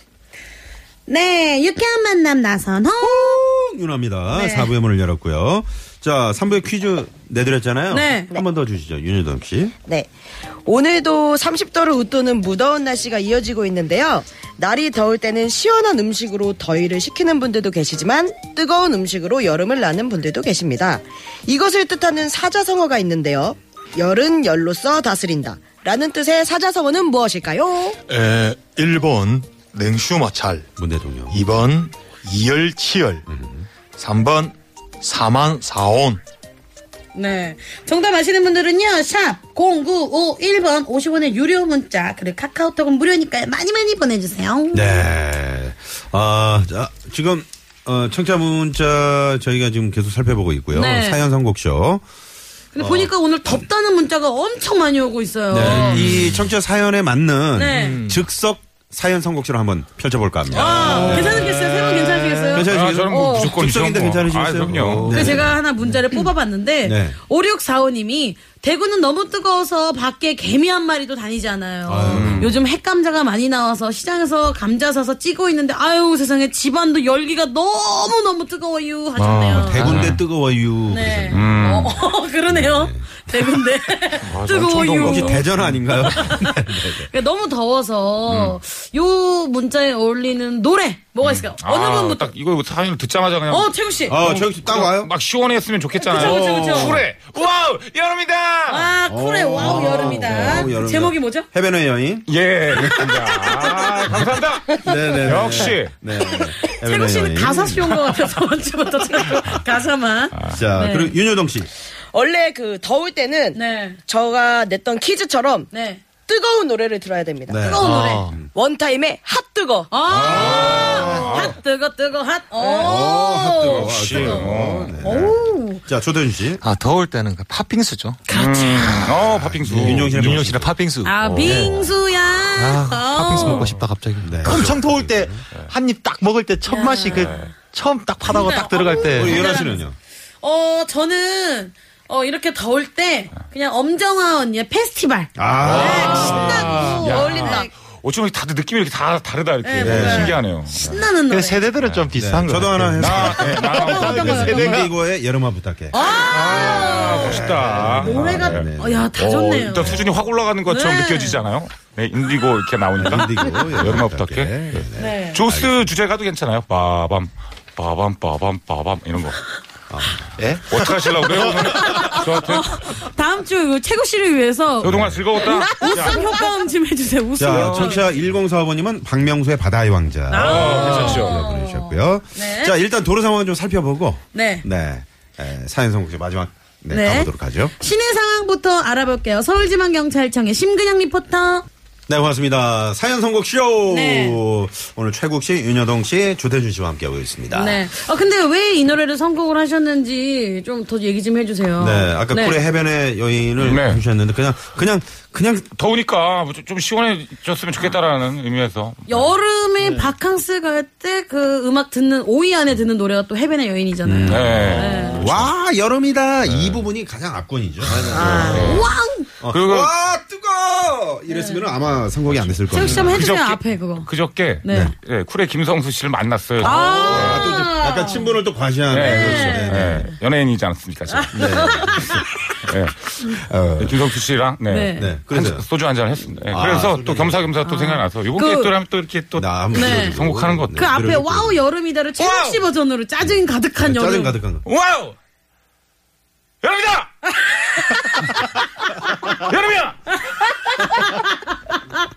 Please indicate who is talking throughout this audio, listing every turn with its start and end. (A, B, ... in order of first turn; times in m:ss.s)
0:01.1-0:03.4 A
0:03.0-0:09.7 B
0:04.3-0:04.7 A
0:07.9-0:08.3 A
0:10.6-0:28.0 C
0:28.1-0:30.7 D
0:30.8-0:31.4 B
0:31.3-0:33.2 D
0:33.3-0:33.7 B
0:33.9-0:36.2 D
0:37.1-0:45.1 A
0:44.7-0:52.0 B
0:50.7-0:51.2 A
0:52.7-0:56.1 A
0:52.8-0:53.6 B
0:55.5-1:01.5 B
0:57.5-0:58.0 A
0:57.7-0:58.2 D
1:00.5-1:03.8 A
1:01.0-1:01.4 E
1:02.5-1:06.0 B
1:02.6-1:05.2 E
1:04.9-1:05.4 D
1:05.1-1:20.1 A
1:06.8-1:07.2 B
1:11.8-1:12.5 B
1:12.0-1:12.6 E
1:19.2-1:20.2 D
1:19.5-1:23.8 B
1:20.9-1:25.5 A
1:21.3-1:22.0 E
1:24.3-1:25.8 E
1:25.0-1:27.1 B
1:26.0-1:32.3 A
1:28.3-1:28.6 E
1:31.2-1:38.9 E
1:33.5-1:34.2 A
1:34.1-1:35.1 B
1:36.1-1:37.0 A
1:36.1-1:37.0 B
1:38.7-1:41.5 A
1:39.1-1:44.3 B
1:39.6-1:40.4 E
1:42.3-1:45.9 E
1:43.3-1:44.1 A
1:44.8-1:48.1 B
1:46.4-1:51.2 A
1:50.3-1:50.6 E
1:50.5-1:51.7 B
1:52.1-1:55.7 C
1:53.5-1:54.0 A
1:55.7-1:56.0 A
1:56.2-1:57.6 C
1:57.5-1:58.5 B
1:57.6-1:58.3 A
1:57.8-1:58.4 D
1:58.5-1:59.9 C
1:59.9-2:05.8 A
2:00.1-2:01.5 B
2:00.1-2:01.5 E
2:01.1-2:01.4 D
2:02.6-2:03.0 C
2:02.8-2:06.6 B
2:03.6-2:05.1 E
2:06.6-2:08.2 D
2:08.3-2:08.8 A
2:08.3-2:10.3 E
2:09.5-2:10.8 B
2:09.6-2:11.9 D
2:11.0-2:13.7 A
2:12.6-2:19.4 D
2:13.4-2:13.7 E
2:14.2-2:15.4 B
2:16.6-2:17.5 A
2:17.1-2:17.5 E
2:18.3-2:19.8 A
2:19.0-2:20.0 B
2:20.4-2:27.7 A
2:25.4-2:26.9 B
2:25.6-2:31.0 E
2:26.0-2:26.9 D
2:26.8-2:27.7 C
2:29.6-2:31.7 A
2:29.8-2:30.4 B
2:31.3-2:34.9 D
2:31.8-2:32.1 E
2:32.1-2:39.1 B
2:32.9-2:34.6 E
2:33.7-2:34.9 A
2:35.9-2:40.1 A
2:36.2-2:49.4 E
2:40.7-2:41.4 A
2:43.0-2:45.9 B
2:45.0-2:45.4 A
2:49.9-2:50.4 B
2:50.4-2:52.0 D
2:50.7-2:52.8 E
2:51.7-2:58.1 A
2:54.8-2:56.3 E
2:54.8-2:55.3 B
2:57.4-3:07.7 B
3:00.3-3:02.8 A
3:00.3-3:01.4 E
3:04.3-3:04.6 A
3:06.9-3:11.6 A
3:12.1-3:17.8 B
3:13.9-3:14.4 A
3:17.5-3:22.6 A
3:21.8-3:25.7 B
3:23.6-3:24.0 E
3:25.7-3:29.3 E
3:29.1-3:35.2 A
3:29.8-3:30.1 D
3:34.0-3:38.6 B
3:34.3-3:35.5 E
3:38.0-3:38.8 D
3:38.1-3:38.7 C
3:38.2-3:38.9 E
3:38.6-3:39.3 A
3:39.4-3:43.2 B
3:39.4-3:39.9 E
3:41.3-3:41.7 A
3:42.2-3:47.6 E
3:42.7-3:44.1 A
3:44.6-3:44.9 A
3:44.7-3:44.9 B
3:46.6-3:50.1 B
3:46.6-3:48.4 A
3:48.9-3:51.7 E
3:49.0-3:50.1 A
3:51.1-3:52.2 A
3:51.3-3:52.2 B
3:52.6-4:00.9 E
3:53.5-3:54.0 B
3:54.7-3:55.1 A
3:55.0-3:55.6 B
3:56.5-3:57.5 B
3:57.6-3:58.7 A
3:59.4-4:01.6 B
3:59.7-4:00.2 A
4:00.7-4:04.4 A
4:02.2-4:02.6 E
4:03.2-4:04.6 B
4:04.6-4:05.2 E
4:06.6-4:07.1 E
4:07.4-4:08.3 A
4:09.2-4:10.1 E
4:10.2-4:12.0 A